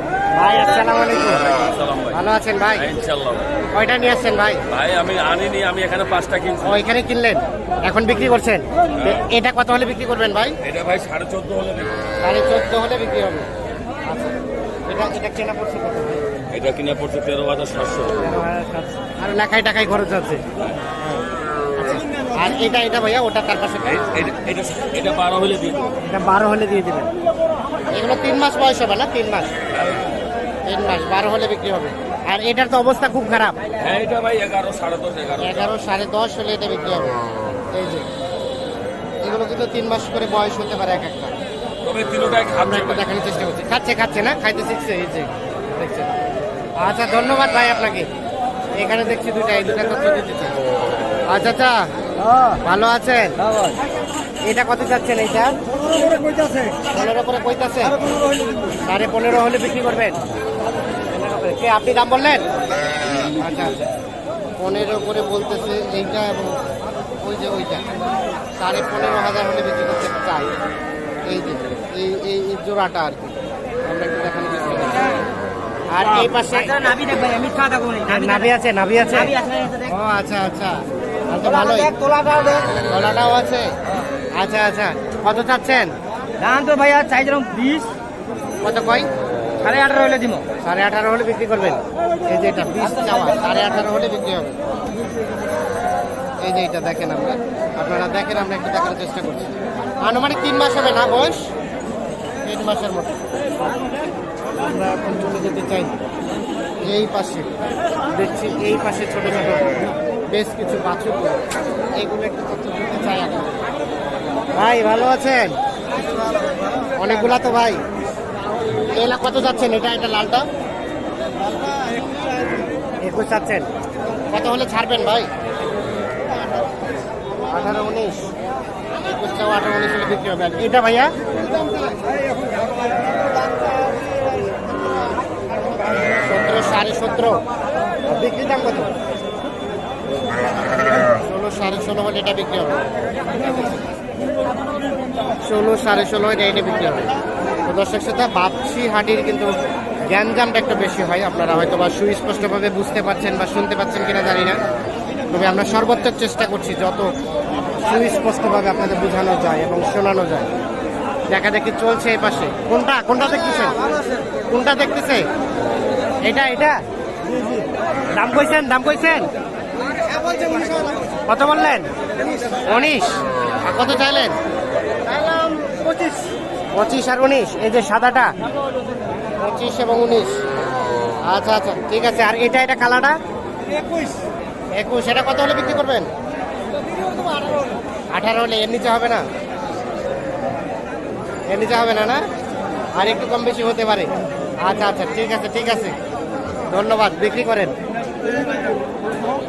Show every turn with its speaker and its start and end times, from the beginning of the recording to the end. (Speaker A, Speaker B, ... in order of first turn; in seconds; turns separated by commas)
Speaker A: 0.3-1.6, Speaker B: 1.4-2.2, Speaker A: 2.1-2.9, Speaker B: 2.8-3.5, Speaker A: 3.7-4.6, Speaker B: 4.7-6.8, Speaker A: 6.6-10.6, Speaker B: 10.6-11.9, Speaker A: 12.2-13.5, Speaker A: 14.1-14.3, Speaker A: 14.9-16.2, Speaker B: 16.5-18.1, Speaker A: 18.2-20.4, Speaker A: 22.3-24.1, Speaker B: 23.9-25.9, Speaker A: 26.0-27.1, Speaker A: 27.9-29.5, Speaker B: 29.8-30.0, Speaker A: 30.6-33.6, Speaker B: 33.8-35.7, Speaker A: 35.4-37.2, Speaker A: 37.7-38.1, Speaker A: 39.2-41.3, Speaker B: 41.8-43.0, Speaker A: 42.6-46.1, Speaker A: 46.8-48.1, Speaker A: 48.8-50.5, Speaker A: 51.3-51.9, Speaker A: 52.6-53.4, Speaker C: 53.5-53.8, Speaker A: 54.5-55.6, Speaker C: 56.0-56.7, Speaker A: 56.9-58.0, Speaker A: 58.8-60.2, Speaker A: 61.1-62.5, Speaker A: 63.4-63.8, Speaker A: 64.6-66.6, Speaker A: 67.2-67.8, Speaker A: 68.5-70.6, Speaker A: 71.3-75.1, Speaker A: 75.9-76.9, Speaker C: 76.0-78.5, Speaker A: 78.1-79.3, Speaker C: 79.1-79.9, Speaker A: 79.8-81.9, Speaker C: 81.4-82.8, Speaker A: 82.8-83.7, Speaker A: 84.3-85.9, Speaker C: 86.4-87.9, Speaker A: 88.6-89.1, Speaker C: 89.6-90.5, Speaker A: 90.6-94.5, Speaker A: 96.4-101.5, Speaker A: 102.4-103.2, Speaker A: 104.6-105.9, Speaker A: 106.8-107.5, Speaker A: 108.1-113.5, Speaker A: 114.5-115.6, Speaker A: 116.9-117.8, Speaker A: 118.9-120.5, Speaker C: 121.5-122.1, Speaker A: 123.0-123.7, Speaker A: 124.3-125.3, Speaker A: 127.5-128.3, Speaker A: 129.0-131.1, Speaker A: 136.1-137.4, Speaker A: 138.0-138.9, Speaker A: 140.9-142.8, Speaker A: 145.4-147.1, Speaker A: 147.6-149.5, Speaker A: 150.1-154.6, Speaker A: 155.3-157.1, Speaker A: 157.8-160.5, Speaker A: 161.3-163.8, Speaker A: 164.5-165.3, Speaker A: 166.2-166.8, Speaker A: 168.1-169.3, Speaker C: 170.0-170.9, Speaker A: 171.3-171.9, Speaker A: 172.6-174.4, Speaker C: 175.1-176.3, Speaker A: 176.7-178.3, Speaker A: 179.4-180.4, Speaker A: 181.3-183.2, Speaker A: 184.7-186.1, Speaker C: 187.2-187.6, Speaker A: 188.1-189.2, Speaker A: 191.5-192.2, Speaker A: 193.0-195.9, Speaker A: 196.7-197.7